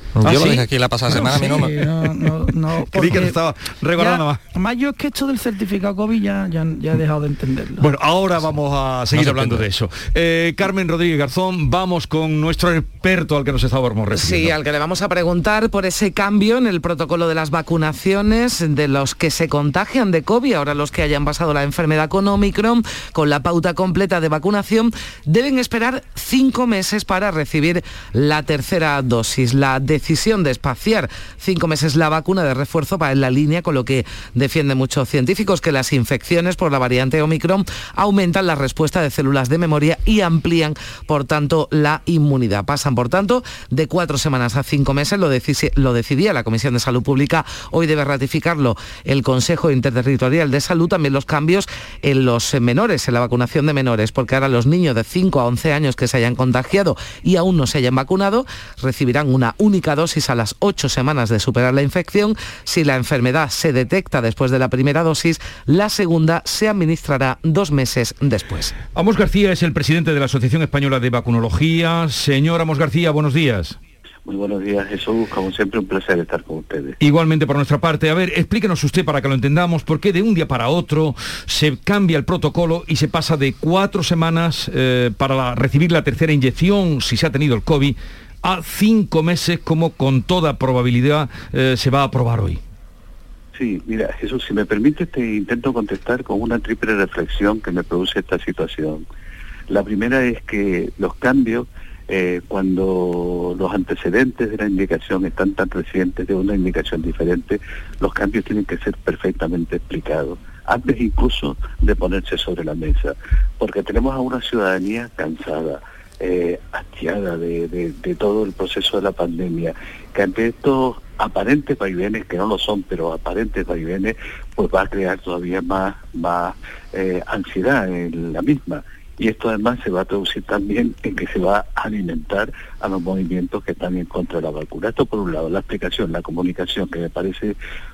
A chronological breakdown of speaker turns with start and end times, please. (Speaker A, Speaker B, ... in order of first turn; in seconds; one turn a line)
Speaker A: 0.2-1.8
Speaker B: 0.2-0.7
Speaker C: 1.1-3.4
Speaker B: 2.9-4.4
Speaker C: 3.9-7.8
Speaker B: 7.8-14.6
Speaker A: 9.1-9.6
Speaker D: 14.1-68.7
Speaker B: 68.9-73.8
Speaker E: 74.2-77.0
Speaker B: 77.0-92.6
Speaker E: 93.5-99.0
Speaker E: 99.7-137.6